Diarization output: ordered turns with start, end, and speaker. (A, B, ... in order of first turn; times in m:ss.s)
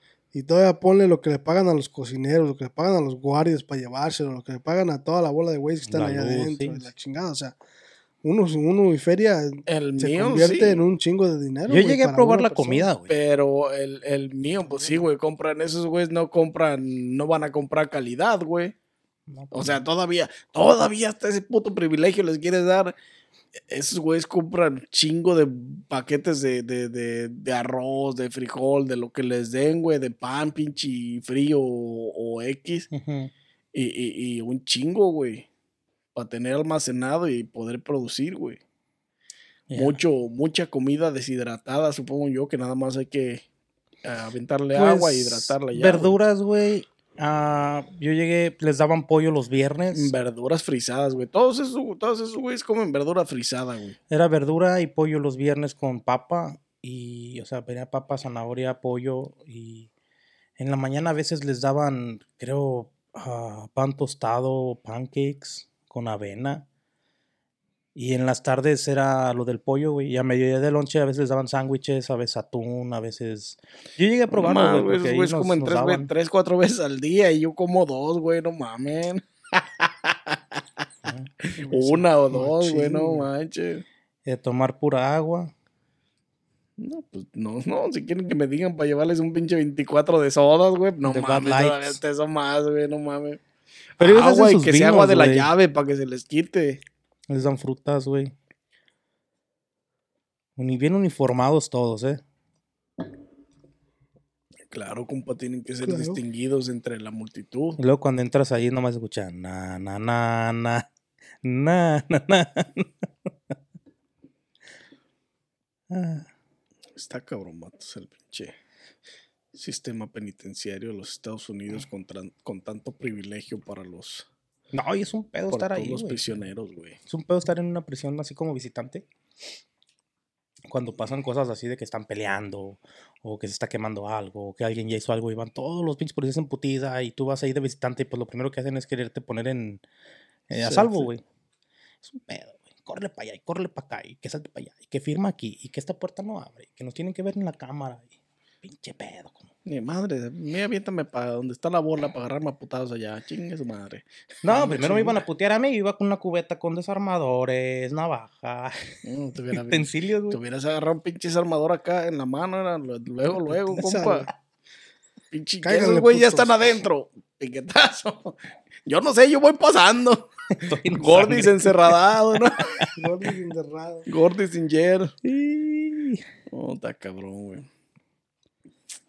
0:00.3-0:07.6 A
0:05.9-0:06.9 B
0:08.2-0:12.9 A
0:09.7-0:10.8 C
0:11.7-0:13.1 B
0:13.1-0:18.8 C
0:14.7-0:15.1 A
0:19.3-0:19.8 B
0:19.5-0:23.0 C
0:23.7-0:32.9 C
0:32.9-0:33.3 B
0:33.7-0:35.5 C
0:36.2-0:38.6 C
0:39.7-0:40.0 B
0:39.7-0:43.4 C
0:44.0-0:46.2 C
0:44.7-0:50.1 B
0:49.9-0:54.0 C
0:54.1-0:59.9 B
1:00.6-1:06.7 B
1:08.0-1:16.1 B
1:14.3-1:20.6 C
1:21.0-1:21.3 B
1:21.5-1:23.8 C
1:21.6-1:23.3 A
1:24.2-1:25.5 B
1:26.8-1:33.4 C
1:31.0-1:32.0 B
1:34.0-1:36.8 C
1:34.0-1:35.5 B
1:37.3-1:38.3 B
1:40.6-1:42.2 B
1:44.7-1:47.8 C
1:45.8-1:46.2 A
1:47.8-1:50.9 B
1:51.4-1:53.5 B
1:55.9-1:56.3 B
1:57.0-1:58.6 C
1:59.5-2:04.3 C
2:04.7-2:06.2 B
2:05.5-2:07.0 C
2:07.1-2:09.0 B
2:10.7-2:19.8 B
2:20.5-2:21.2 B
2:20.6-2:21.1 C
2:22.0-2:28.1 B
2:28.6-2:29.5 B
2:29.7-2:35.2 C
2:34.4-2:38.9 B
2:39.0-2:44.3 C
2:39.5-2:40.4 B
2:43.7-2:44.3 A
2:45.3-2:50.3 C
2:45.6-2:46.7 A
2:50.6-2:51.9 B
2:50.9-2:52.9 C
2:53.0-2:54.1 A
2:54.1-2:55.1 C
2:55.2-2:56.2 B
2:56.5-2:57.7 C